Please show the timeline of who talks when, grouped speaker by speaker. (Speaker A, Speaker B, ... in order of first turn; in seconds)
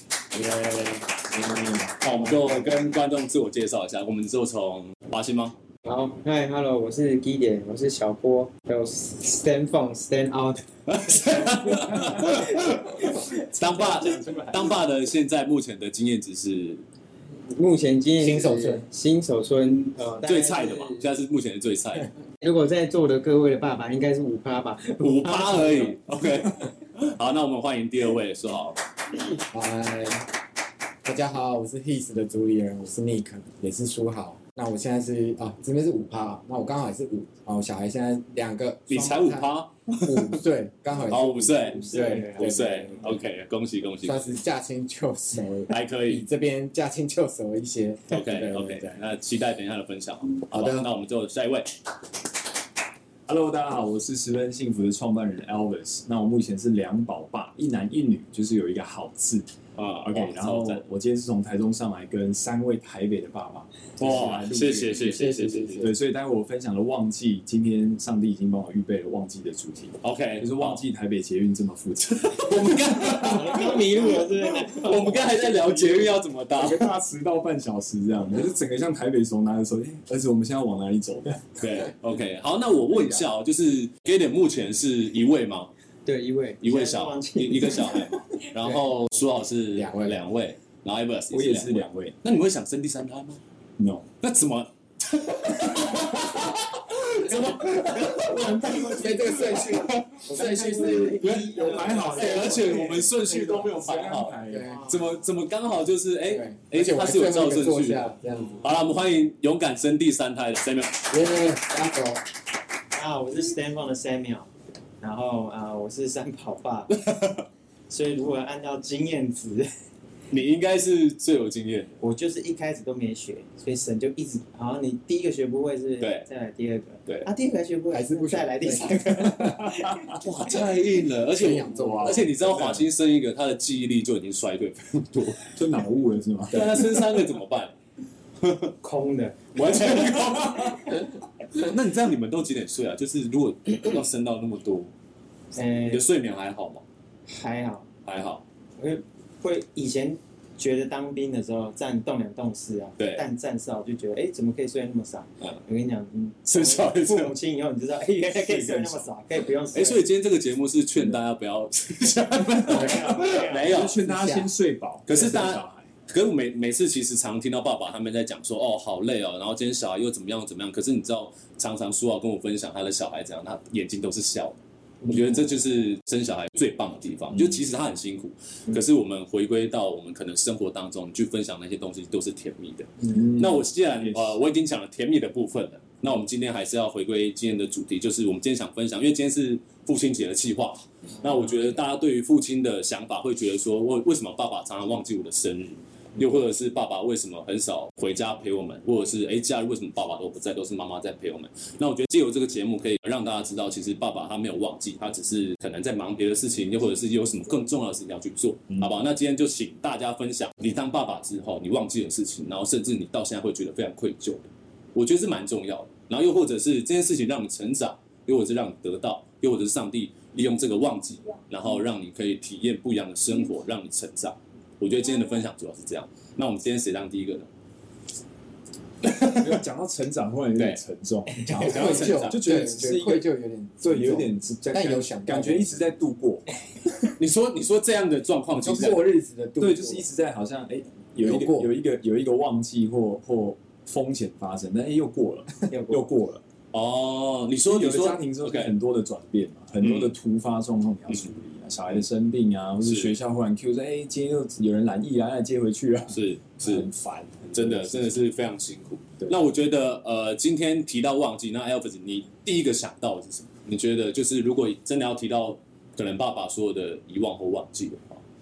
Speaker A: 0.3-2.7, 18.2-18.9, 29.2-30.3, 31.0-39.5, 40.0-43.2, 44.0-49.0, 50.5-50.9, 64.2-66.0, 89.7-90.2, 98.8-103.1, 104.5-104.8, 106.2-108.7, 111.1-112.2, 127.9-129.8, 131.3-132.3, 164.0-164.5, 231.6-235.9, 238.5-240.1, 241.2-241.7
Speaker B: 1.7-5.5, 10.9-16.8, 20.2-22.1, 25.0-28.8, 38.9-40.4, 41.1-44.4, 45.7-46.2, 48.1-51.7, 59.8-60.8, 64.0-65.9, 70.0-70.8, 72.3-76.9, 81.6-85.7, 86.6-93.4, 94.2-101.5, 102.1-111.2, 116.9-117.5, 120.3-122.0, 126.0-126.3, 130.2-135.5, 136.5-137.7, 138.4-138.7, 139.6-144.9, 145.9-146.8, 148.1-148.4, 153.0-153.3, 156.5-157.3, 159.7-164.0, 165.1-227.5, 229.0-229.6, 231.6-232.4, 237.2-239.1, 246.7-248.7, 249.8-250.1, 252.8-253.2, 256.1-256.9, 257.5-268.2
Speaker C: 5.8-13.4, 17.5-21.1, 22.4-25.9, 86.0-86.6
Speaker D: 14.0-14.5, 53.3-59.5, 60.0-73.8, 76.6-81.6, 91.3-92.2, 93.8-94.1, 101.3-104.8, 129.5-130.0, 131.7-132.9, 135.5-137.2, 158.2-159.1, 162.7-165.9, 177.3-177.6, 183.1-184.4, 229.3-233.3, 233.8-236.5, 239.6-246.4, 247.7-258.2
Speaker E: 41.8-42.9, 73.1-76.2, 86.6-88.0, 97.1-99.6, 100.2-102.7, 104.6-105.3, 112.9-114.5, 115.0-116.9, 117.9-119.7, 122.0-130.2, 138.8-141.0, 145.5-146.1, 147.3-147.9, 148.8-160.0, 162.7-163.9, 175.0-175.4